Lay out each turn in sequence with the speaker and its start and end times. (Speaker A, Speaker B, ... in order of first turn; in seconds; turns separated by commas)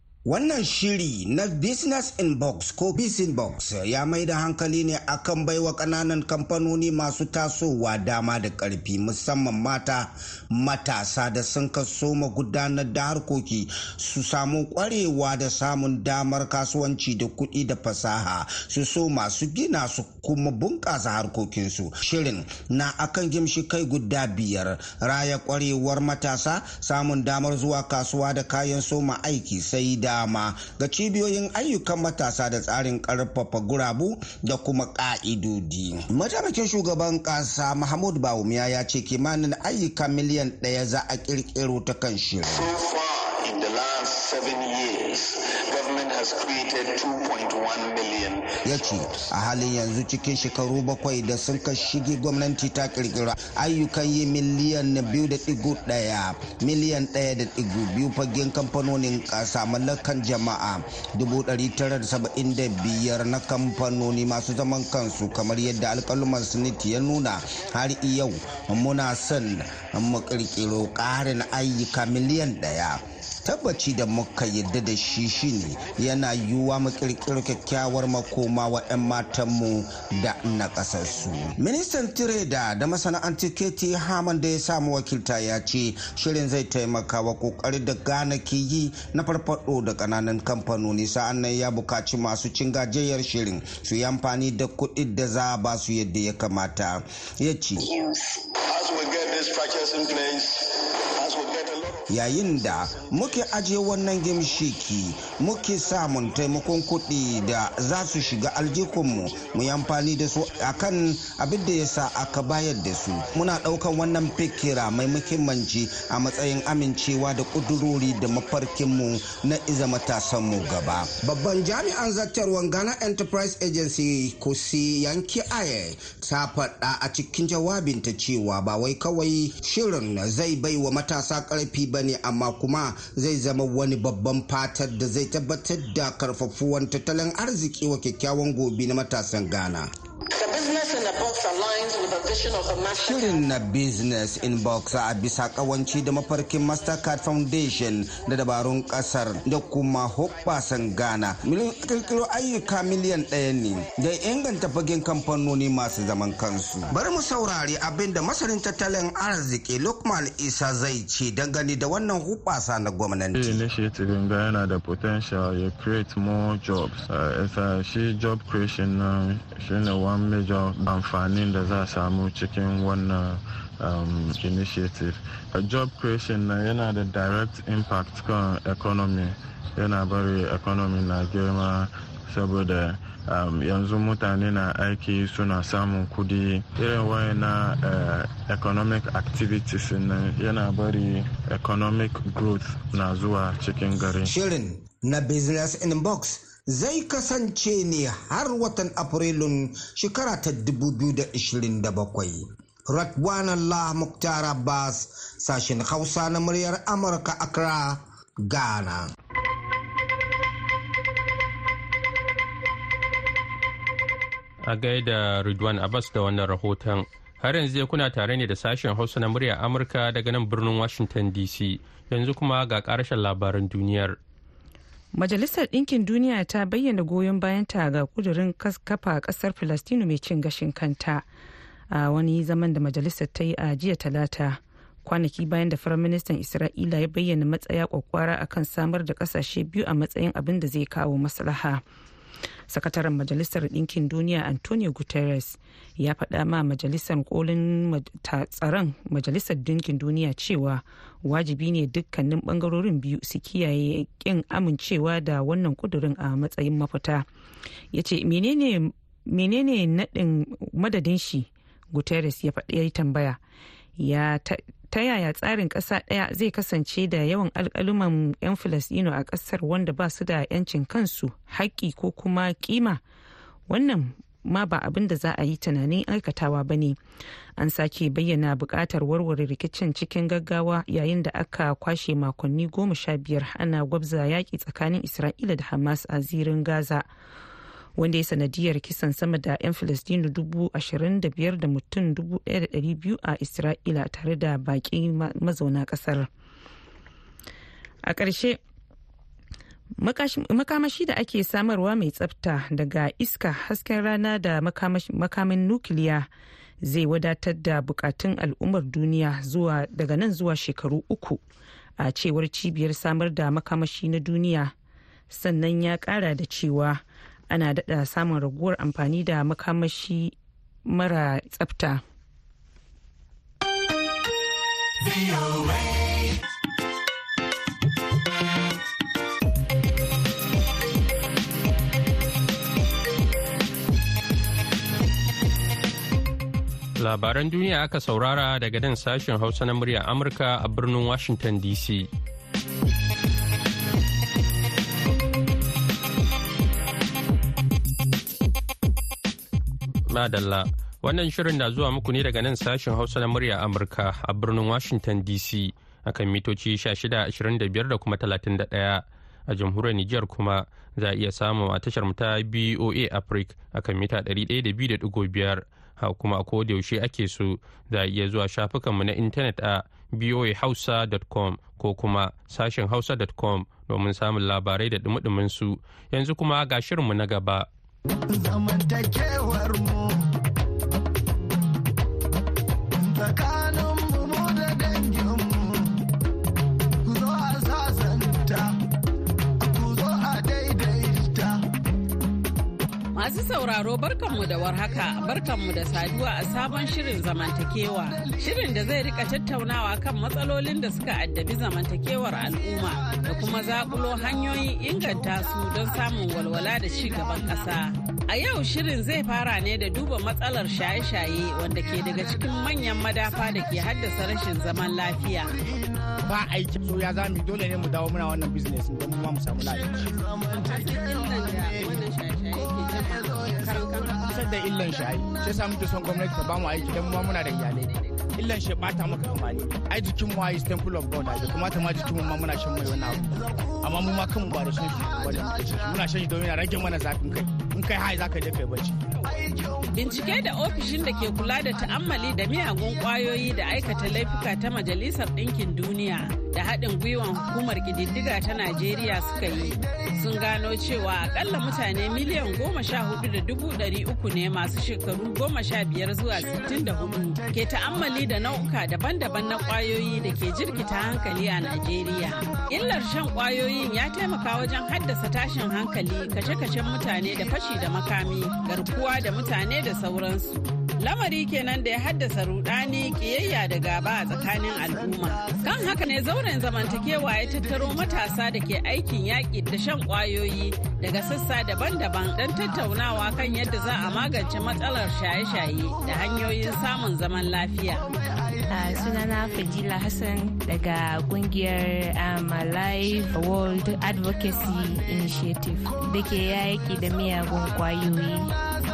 Speaker A: 0.3-42.6, Speaker B: 42.5-48.6, Speaker A: 48.6-97.9, Speaker B: 97.9-102.1, Speaker A: 102.1-139.9, Speaker B: 140.3-143.4, Speaker A: 143.0-163.6, Speaker C: 163.3-194.3, Speaker A: 194.3-209.1, Speaker D: 214.6-224.2, Speaker E: 225.1-231.2, Speaker E: 231.9-241.8, Speaker E: 242.7-257.3, Speaker E: 257.9-263.4, Speaker E: 264.0-273.0, Speaker E: 273.7-277.0, Speaker E: 277.6-287.1, Speaker E: 288.0-296.3, Speaker E: 298.0-298.6, Speaker E: 300.0-306.3, Speaker E: 306.8-311.4, Speaker E: 312.0-314.7, Speaker E: 315.3-320.3, Speaker E: 320.9-322.0, Speaker D: 337.0-342.1, Speaker D: 350.1-377.7, Speaker F: 393.1-415.6, Speaker G: 416.2-420.1, Speaker F: 420.5-424.2, Speaker G: 424.2-439.0, Speaker F: 439.9-488.1, Speaker H: 488.7-498.6